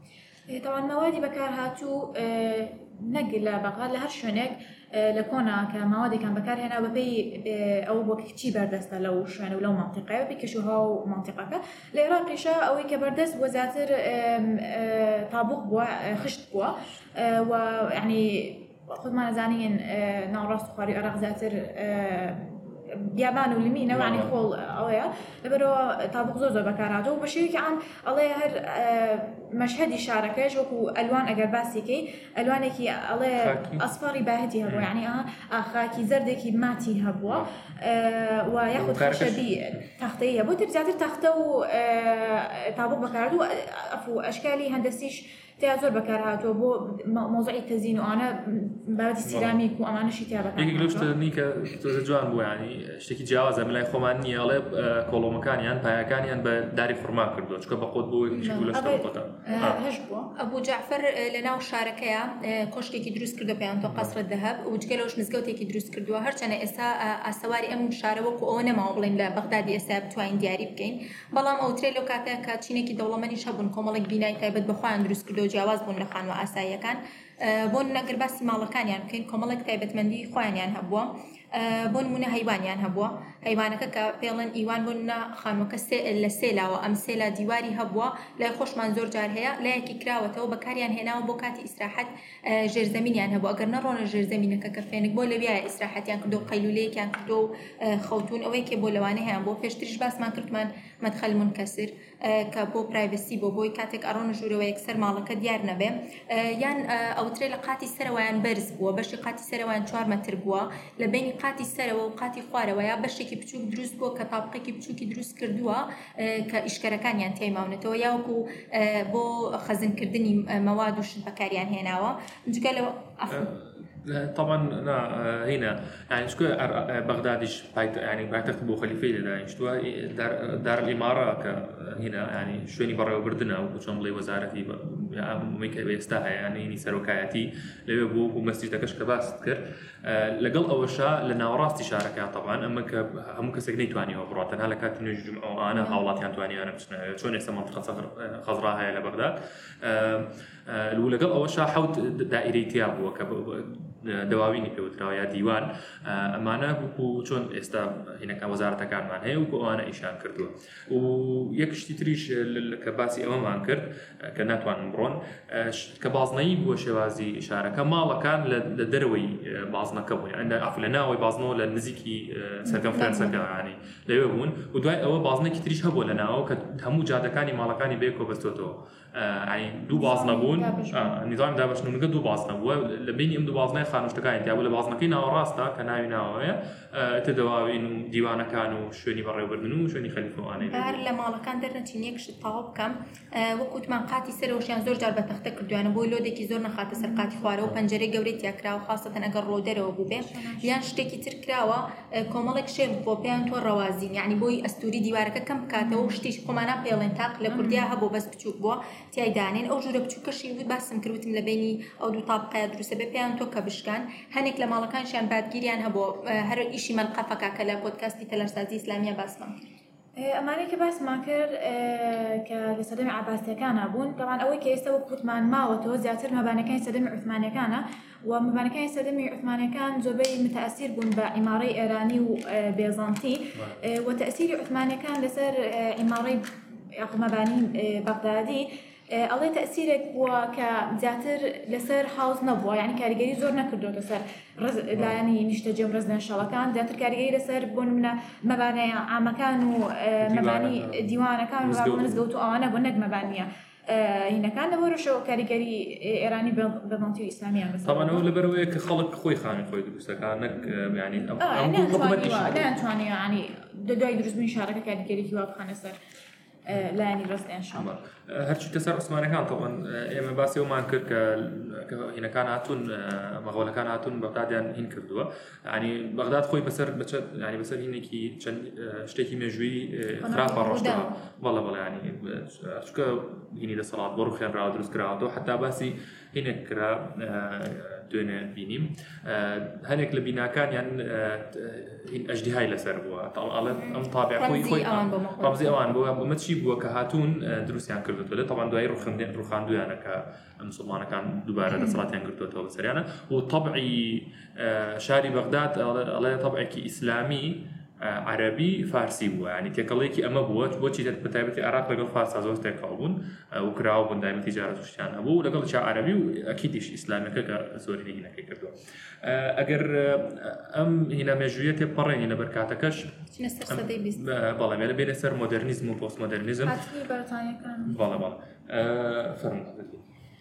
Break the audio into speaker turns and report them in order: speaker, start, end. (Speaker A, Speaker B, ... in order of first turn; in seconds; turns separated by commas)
Speaker A: 0.5-51.1, Speaker B: 23.9-24.3, Speaker B: 33.4-33.8, Speaker B: 38.8-39.4, Speaker B: 49.2-49.6, Speaker B: 50.5-59.8, Speaker A: 58.7-60.3, Speaker C: 60.3-123.5, Speaker B: 63.8-64.1, Speaker B: 123.3-191.0, Speaker C: 145.7-146.0, Speaker A: 172.7-173.4, Speaker A: 179.9-181.2, Speaker C: 190.6-219.7, Speaker A: 196.9-197.5, Speaker A: 200.2-200.8, Speaker A: 205.8-206.2, Speaker A: 207.5-207.9, Speaker A: 220.2-236.4, Speaker A: 237.0-258.3, Speaker B: 244.9-245.2, Speaker B: 250.2-251.0, Speaker B: 251.6-252.2, Speaker B: 257.8-262.8, Speaker A: 261.4-266.0, Speaker A: 266.6-267.9, Speaker B: 267.7-326.8, Speaker C: 280.2-281.1, Speaker C: 293.7-295.8, Speaker C: 323.3-324.2, Speaker A: 326.6-328.0, Speaker B: 327.8-330.0